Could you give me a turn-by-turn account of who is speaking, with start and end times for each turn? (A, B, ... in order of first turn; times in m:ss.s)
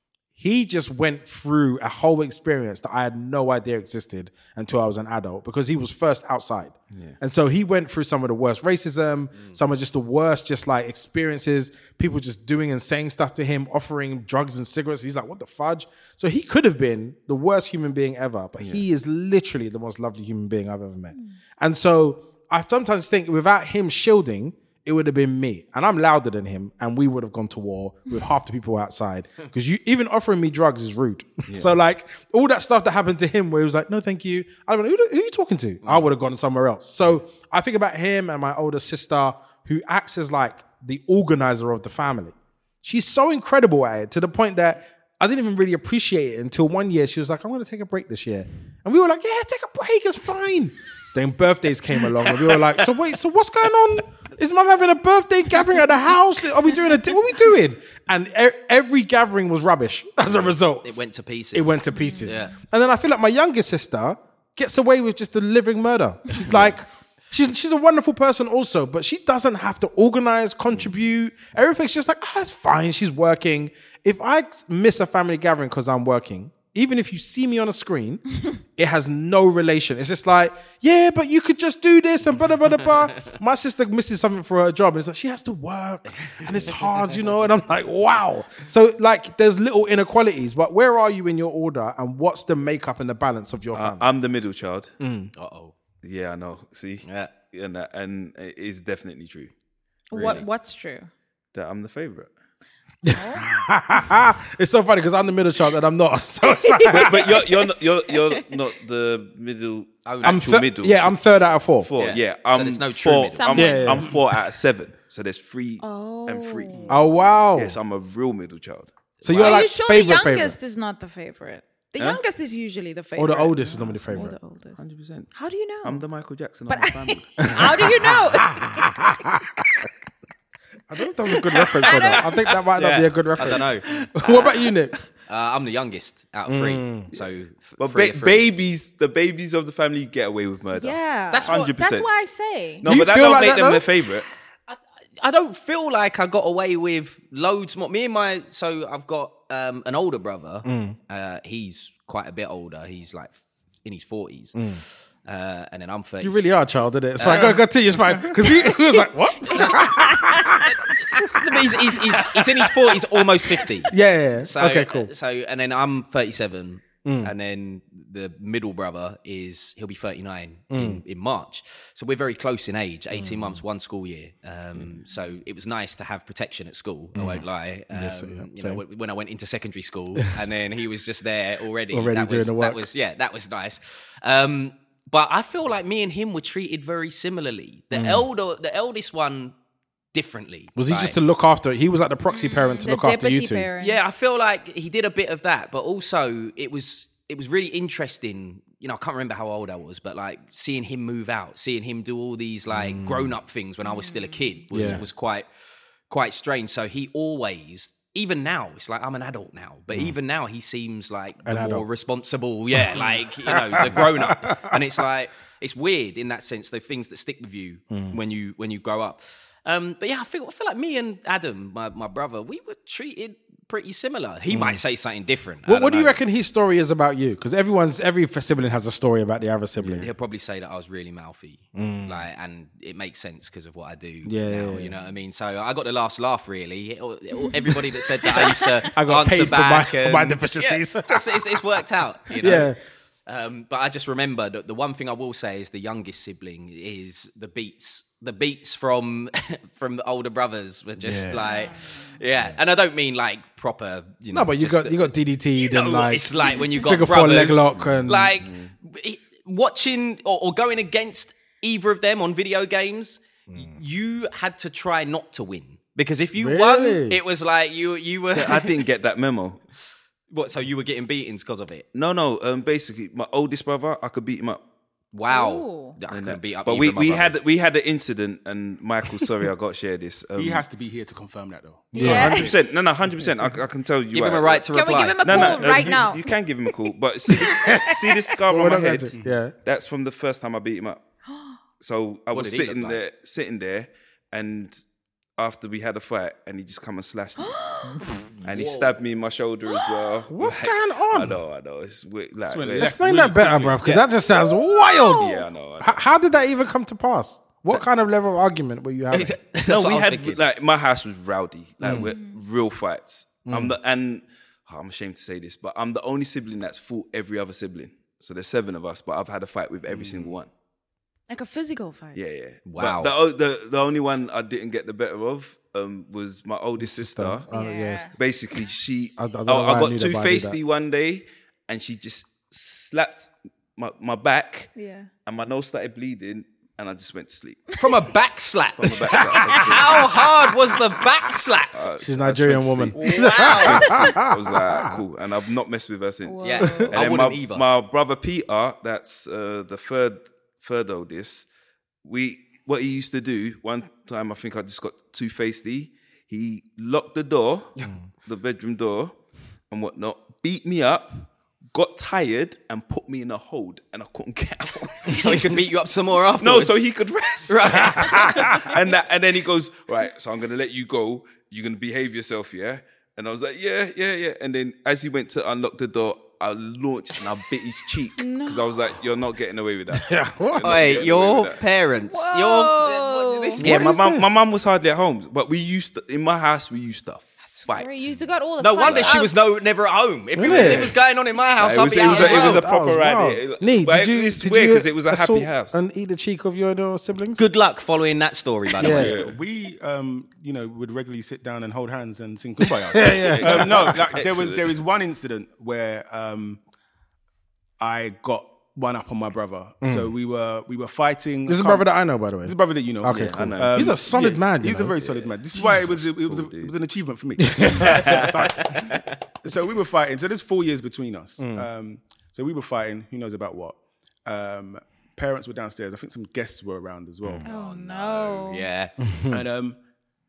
0:00.4-1:00.9 A
0:06.9-0:07.2 B
0:31.5-0:31.8 B
1:00.8-1:02.5 C
1:01.5-1:34.1 A
1:01.9-1:02.5 D
1:33.7-1:35.0 B
1:35.0-1:35.3 A
1:35.4-1:35.7 C
1:36.0-1:39.5 B
1:37.0-1:37.3 C
1:40.1-1:41.1 D
1:40.1-1:40.5 C
1:41.5-1:42.3 B
1:43.1-1:47.4 A
1:43.1-1:43.4 D
1:46.7-1:47.4 D
1:46.9-1:51.2 B
1:50.1-1:50.5 C
1:50.2-1:51.9 A
1:51.8-1:59.5 B
1:52.0-1:53.5 C
1:53.3-1:54.1 D
1:53.6-1:54.1 A
1:55.8-1:56.9 D
1:56.9-1:57.8 A
1:59.2-1:59.6 C
1:59.2-2:00.6 A
1:59.4-2:03.6 D
2:03.2-2:04.4 A
2:03.7-2:04.2 B
2:04.1-2:04.8 D
2:04.8-2:08.0 B
2:05.3-2:06.0 D
2:06.7-2:09.1 D
2:07.5-2:07.9 A
2:08.6-2:09.4 A
2:10.9-2:14.9 A
2:11.8-2:12.2 C
2:11.8-2:12.3 D
2:12.7-2:14.5 C
2:15.3-2:18.4 C
2:16.5-2:17.1 A
2:17.1-2:22.1 B
2:20.7-2:22.8 D
2:21.3-2:21.7 C
2:22.8-2:24.3 B
2:22.8-2:23.9 A
2:24.7-2:36.5 C
2:30.6-2:31.0 A
2:34.6-2:34.8 A
2:36.2-2:40.6 A
2:37.2-2:37.6 C
2:39.6-2:39.8 C
2:40.6-3:09.6 C
2:41.2-2:41.5 A
2:42.3-2:43.0 A
2:43.9-2:45.1 A
2:47.0-2:47.3 A
2:50.7-2:51.0 A
2:53.1-2:53.6 A
2:57.2-2:58.8 A
3:01.9-3:02.9 A
3:07.9-3:08.2 A
3:10.1-3:11.2 C
3:10.8-3:13.7 A
3:12.3-3:14.0 D
3:13.8-3:25.5 C
3:22.7-3:23.4 A
3:23.8-3:24.6 D
3:24.7-3:25.0 A
3:26.1-3:46.2 C
3:31.4-3:31.9 A
3:32.8-3:34.8 A
3:37.9-3:38.2 A
3:44.5-3:44.8 A
3:45.6-3:50.1 A
3:49.8-3:50.1 B
3:50.0-4:02.7 C
3:51.8-3:52.3 A
3:54.2-3:54.9 A
3:58.4-4:01.6 A
4:02.4-4:02.8 A
4:03.3-4:28.7 C
4:11.0-4:11.4 A
4:11.4-4:12.2 D
4:14.3-4:18.4 A
4:17.8-4:18.7 B
4:23.5-4:23.7 A
4:26.4-4:27.2 A
4:28.3-4:29.6 B
4:30.3-4:31.8 C
4:31.9-4:34.6 B
4:35.1-4:37.4 C
4:35.3-4:36.0 D
4:36.1-4:40.6 B
4:40.4-4:42.3 E
4:41.9-4:42.5 A
4:41.9-4:42.5 D
4:42.0-4:51.0 B
4:43.1-4:43.6 E
4:44.1-4:45.8 C
4:44.7-4:46.4 D
4:47.3-4:48.3 D
4:48.5-4:49.6 A
4:51.3-4:51.6 D
4:51.8-4:54.8 B
4:52.3-4:53.0 C
4:55.4-4:57.7 B
4:57.4-4:58.1 D
4:58.4-4:58.9 C
4:58.4-5:03.0 B
4:59.7-5:00.1 D
5:00.3-5:01.4 A
5:02.5-5:03.8 E
5:02.8-5:09.4 A
5:04.8-5:05.4 D
5:05.2-5:06.0 B
5:09.1-5:10.4 C
5:09.6-5:20.5 B
5:11.8-5:12.1 A
5:13.5-5:13.8 A
5:19.9-5:20.3 C
5:21.3-5:22.2 D
5:22.1-5:27.5 B
5:22.6-5:23.1 C
5:26.8-5:28.1 A
5:27.5-5:28.1 D
5:28.1-5:34.7 B
5:29.2-5:30.6 A
5:34.8-5:35.1 D
5:35.3-5:37.7 B
5:37.8-5:41.7 C
5:38.8-5:40.1 B
5:41.7-5:51.5 B
5:42.0-5:44.9 A
5:43.0-5:44.1 C
5:46.2-5:46.9 D
5:46.4-5:47.7 C
5:52.0-6:05.5 B
6:05.1-6:06.9 C
6:06.4-6:21.6 B
6:07.5-6:08.6 C
6:18.2-6:18.8 D
6:19.9-6:20.8 A
6:20.6-6:23.9 C
6:22.1-6:23.6 D
6:23.6-6:28.2 B
6:23.6-6:24.3 A
6:27.4-6:29.3 D
6:28.6-6:32.6 C
6:28.8-6:29.2 B
6:30.4-6:30.9 A
6:30.6-6:30.9 B
6:31.6-6:35.8 B
6:32.3-6:37.4 A
6:37.4-6:39.1 C
6:38.8-6:39.2 A
6:38.8-6:39.4 B
6:38.9-6:46.6 E
6:42.9-6:43.9 A
6:43.3-6:44.7 B
6:47.8-6:58.9 E
6:49.8-6:50.1 A
6:51.5-6:55.0 A
6:53.1-6:54.0 B
6:55.0-6:56.7 B
6:57.9-6:58.3 B
6:58.7-6:59.0 C
6:59.4-7:07.4 E
7:01.4-7:01.7 A
7:07.4-7:08.7 D
7:07.4-7:08.9 C
7:09.0-7:09.4 A
7:09.3-7:09.8 E